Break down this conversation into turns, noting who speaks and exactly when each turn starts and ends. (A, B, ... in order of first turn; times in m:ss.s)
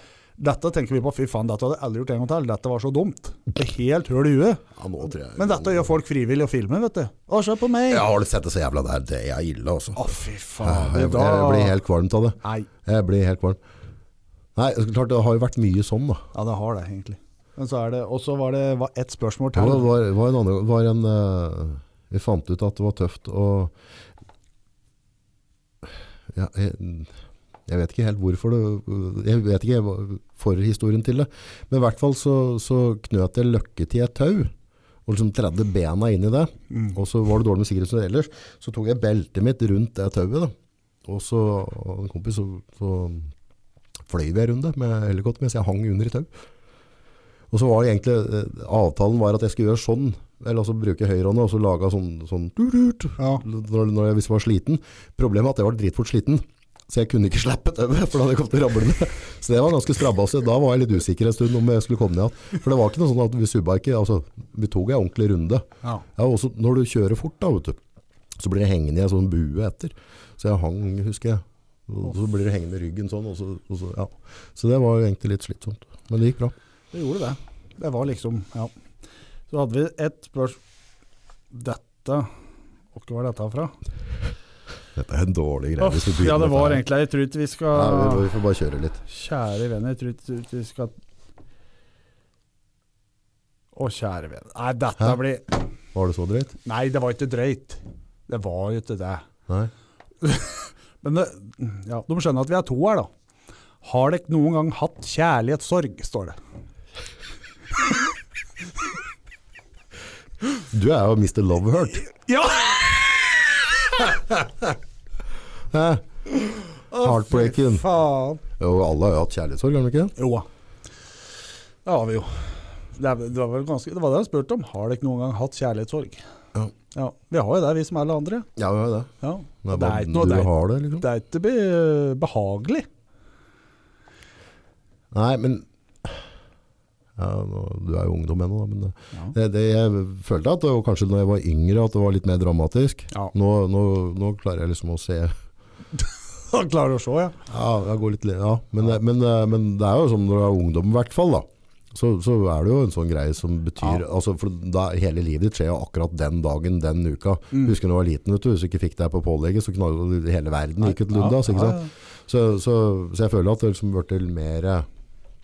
0:00.4-0:04.6 A
0:04.8-0:05.9 B
0:05.3-0:08.1 A
0:07.9-0:13.6 B
0:10.0-0:11.8 A
0:12.4-0:12.7 A
0:14.6-0:16.2 B
0:16.3-0:19.9 A
0:19.6-0:23.7 B
0:26.3-0:27.1 B
0:27.7-0:34.5 B
0:35.1-0:40.5 B
0:41.0-0:43.3 B
0:44.1-0:46.3 B
0:47.5-1:07.8 B
1:08.4-1:16.5 B
1:16.9-1:18.7 A
1:19.5-1:20.6 A
1:21.5-1:22.3 A
1:22.9-1:23.8 A
1:25.0-1:26.8 B
1:25.8-1:28.3 A
1:27.7-1:29.0 B
1:29.1-1:30.9 A
1:33.8-1:35.7 A
1:35.9-1:36.6 B
1:36.6-1:39.2 A
1:40.2-1:43.1 A
1:43.8-1:46.4 A
1:50.7-1:52.0 B
1:52.0-1:54.1 A
1:55.7-1:56.1 B
1:56.9-1:58.4 A
1:56.9-1:57.8 B
1:58.6-2:00.2 B
2:00.2-2:00.5 A
2:01.8-2:06.2 A
2:06.9-2:08.5 A
2:08.6-2:09.1 B
2:09.2-2:12.9 A
2:09.6-2:11.1 B
2:15.1-2:16.2 B
2:17.2-2:25.3 B
2:26.4-2:27.4 A
2:27.5-2:44.9 B
2:40.9-2:41.9 A